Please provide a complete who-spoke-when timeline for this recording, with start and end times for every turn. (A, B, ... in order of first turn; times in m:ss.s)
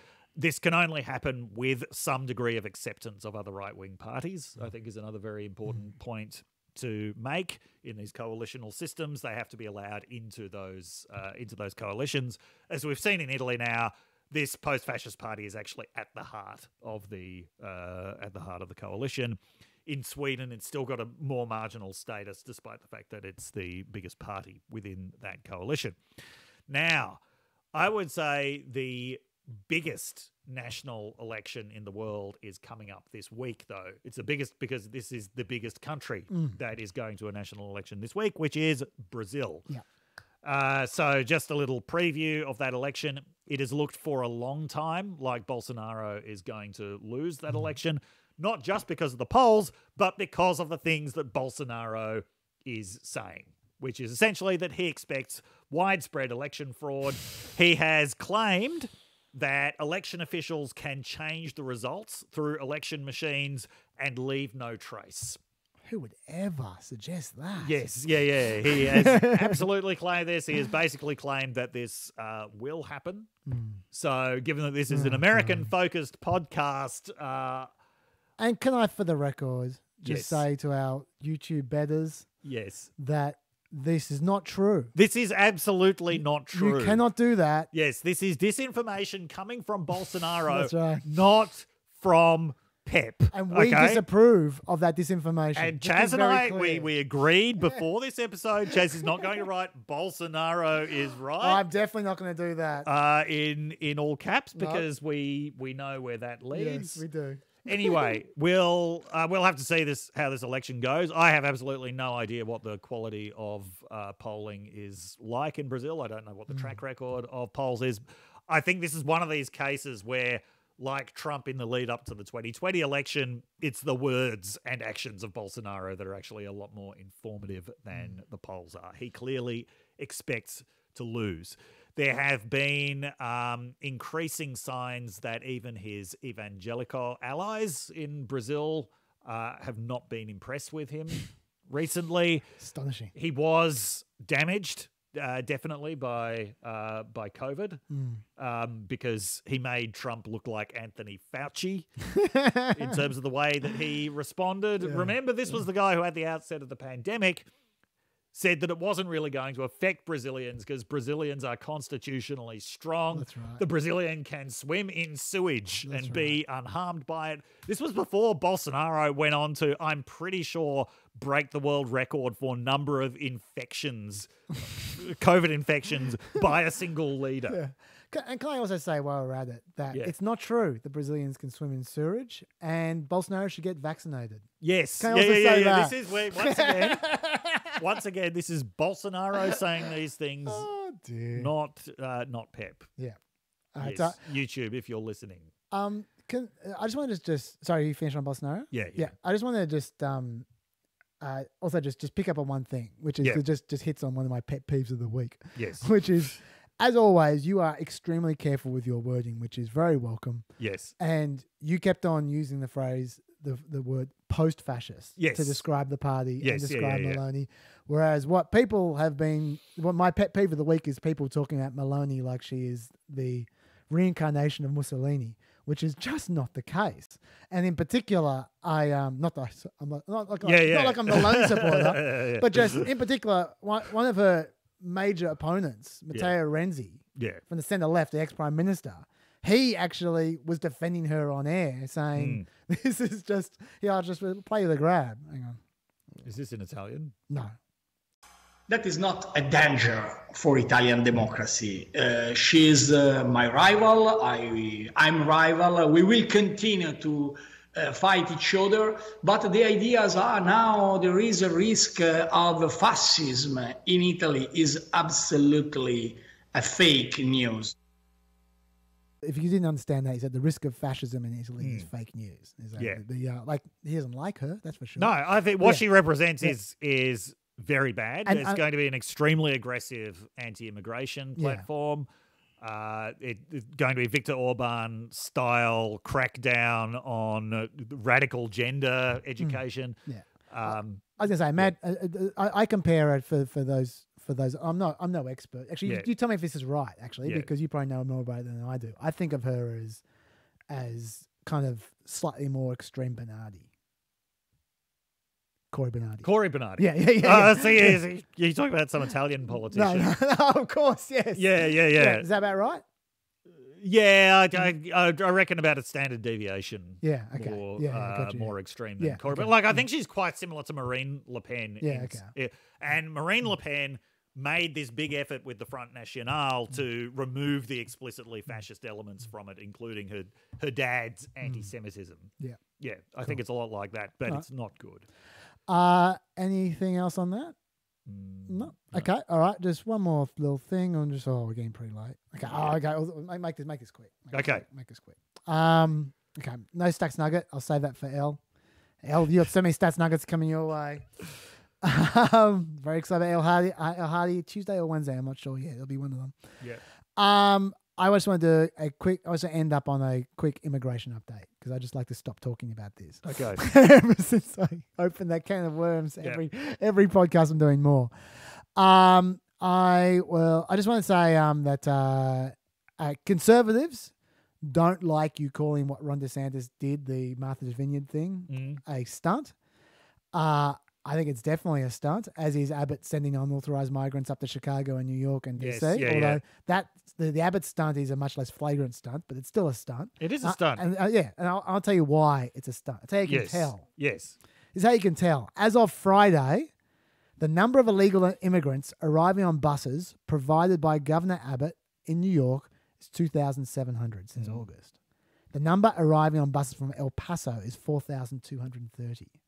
0:00.4-0:26.0 A
0:26.7-0:27.2 A
0:27.7-0:39.7 A
0:36.3-0:36.6 B
0:40.4-1:05.4 A
1:05.8-1:07.8 B
1:07.6-1:13.3 A
1:08.7-1:09.6 B
1:13.4-1:13.8 B
1:13.9-1:17.7 A
1:14.9-1:15.7 B
1:18.4-1:22.3 B
1:20.0-1:20.4 A
1:22.4-1:22.9 A
1:23.0-1:24.9 B
1:24.9-1:27.0 A
1:26.5-1:27.7 B
1:27.7-1:34.0 A
1:30.5-1:31.0 B
1:33.3-1:36.9 B
1:35.5-1:41.6 A
1:37.6-1:37.8 B
1:38.7-1:39.4 B
1:41.4-1:42.9 B
1:42.8-1:47.0 A
1:44.5-1:44.9 B
1:46.5-1:48.1 B
1:47.6-2:22.5 A
2:22.6-2:23.1 B
2:23.1-2:27.8 A
2:27.9-2:28.2 B
2:28.4-2:31.9 A
2:32.1-2:33.0 B
2:32.7-2:37.5 A
2:34.8-2:35.1 B
2:38.3-2:57.6 A
2:43.1-2:43.6 B
2:45.8-2:46.4 B
2:57.5-3:04.5 B
3:04.6-3:07.1 A
3:05.0-3:07.8 B
3:07.7-3:10.6 A
3:10.4-3:11.5 B
3:11.3-3:12.9 A
3:13.7-3:14.2 B
3:13.8-3:15.5 A
3:15.7-3:20.5 B
3:18.7-3:19.1 A
3:21.2-3:30.5 B
3:25.6-3:25.9 A
3:30.6-3:30.9 A
3:31.0-4:05.6 B
3:35.2-3:35.6 A
3:36.4-3:37.2 A
3:50.4-3:52.8 A
3:57.2-3:57.4 A
4:02.2-4:02.5 A
4:06.2-4:07.1 A
4:07.3-4:07.5 B
4:08.7-4:27.7 C
4:29.2-4:35.8 B
4:31.6-4:31.9 A
4:35.0-4:42.1 A
4:38.2-4:38.6 B
4:41.4-4:41.6 B
4:42.6-4:51.7 A
4:49.4-5:00.0 B
4:57.2-4:57.5 A
5:00.7-5:03.7 B
5:05.7-5:08.0 B
5:06.2-5:10.1 A
5:09.7-5:12.8 B
5:11.3-5:12.3 A
5:13.7-5:35.1 A
5:17.0-5:19.8 B
5:21.8-5:22.3 B
5:31.4-5:31.7 B
5:35.7-5:37.5 B
5:38.0-5:39.1 A
5:38.5-5:48.4 B
5:42.4-5:42.8 A
5:44.3-5:44.6 A
5:49.0-5:51.2 B
5:51.8-5:56.4 B
5:57.2-6:08.1 B
6:03.2-6:03.6 A
6:08.7-6:19.5 B
6:18.5-6:18.8 A
6:20.3-6:33.8 B
6:25.6-6:26.4 A
6:30.2-6:30.8 A
6:33.2-6:34.4 A
6:34.7-6:36.7 B
6:37.4-6:44.9 B
6:44.4-6:44.6 A
6:45.5-6:49.3 B